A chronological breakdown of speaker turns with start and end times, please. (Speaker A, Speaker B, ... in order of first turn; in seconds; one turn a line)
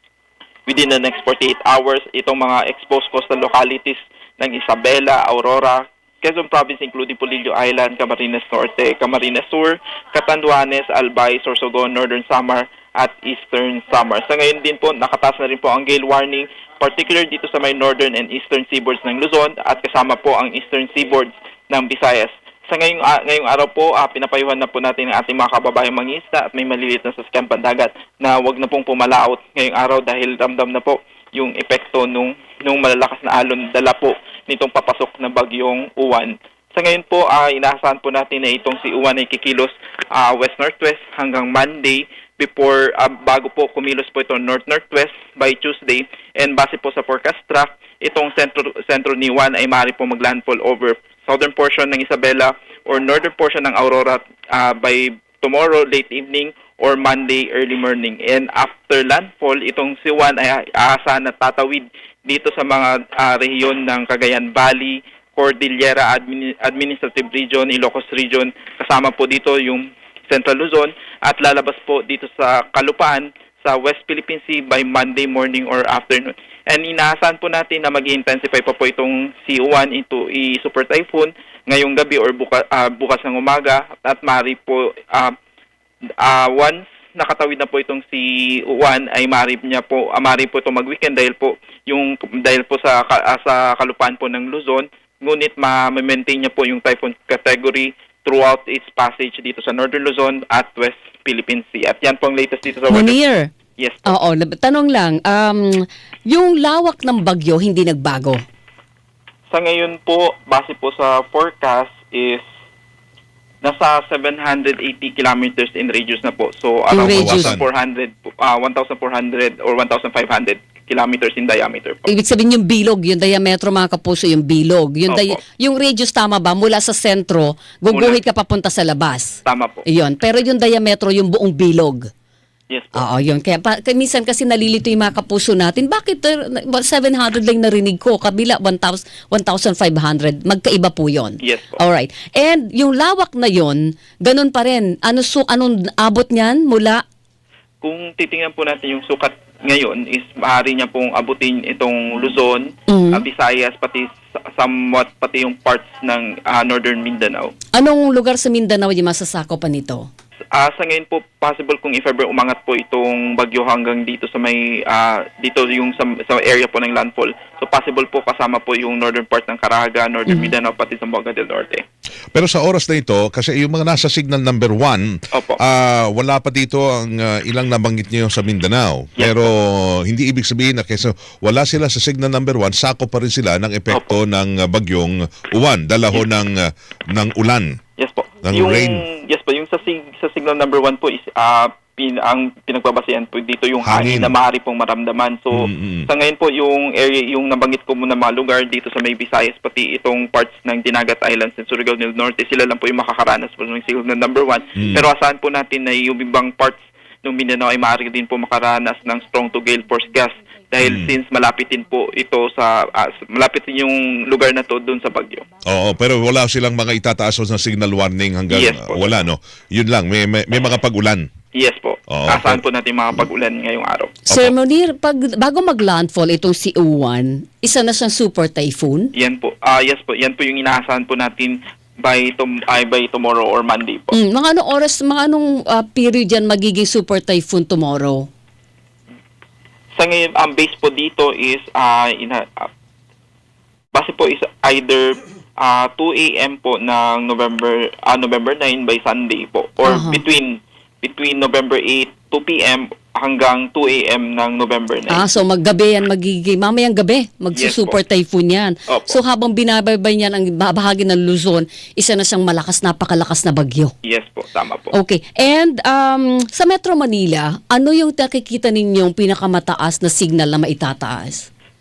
Speaker A: 0.7-85.3
Speaker A: 86.2-103.2
Speaker B: 102.9-103.5
Speaker A: 103.8-104.1
Speaker B: 104.1-108.4
Speaker A: 109.5-112.4
Speaker A: 113.6-122.1
Speaker B: 116.9-117.6
Speaker C: 117.0-117.7
Speaker B: 122.1-132.1
Speaker A: 125.1-125.4
Speaker A: 127.9-128.2
Speaker A: 129.4-129.9
Speaker A: 132.7-133.1
Speaker B: 132.9-147.0
Speaker A: 141.4-141.8
Speaker A: 147.8-157.6
Speaker B: 152.9-153.2
Speaker B: 157.7-160.1
Speaker A: 160.5-171.8
Speaker C: 172.3-187.8
Speaker A: 175.3-175.6
Speaker A: 179.2-179.5
Speaker A: 188.0-215.5
Speaker C: 188.4-189.1
Speaker C: 193.8-194.3
Speaker C: 195.6-196.1
Speaker C: 204.8-205.0
Speaker C: 210.8-211.1
Speaker C: 215.7-221.3
Speaker A: 218.5-219.2
Speaker A: 221.5-224.2
Speaker C: 222.1-222.6
Speaker B: 224.3-229.1
Speaker A: 229.2-234.2
Speaker B: 234.1-238.3
Speaker A: 240.0-242.7
Speaker A: 243.9-255.3
Speaker B: 249.8-250.2
Speaker B: 255.1-263.9
Speaker A: 257.6-258.0
Speaker A: 258.9-259.2
Speaker A: 264.0-264.9
Speaker B: 264.9-271.5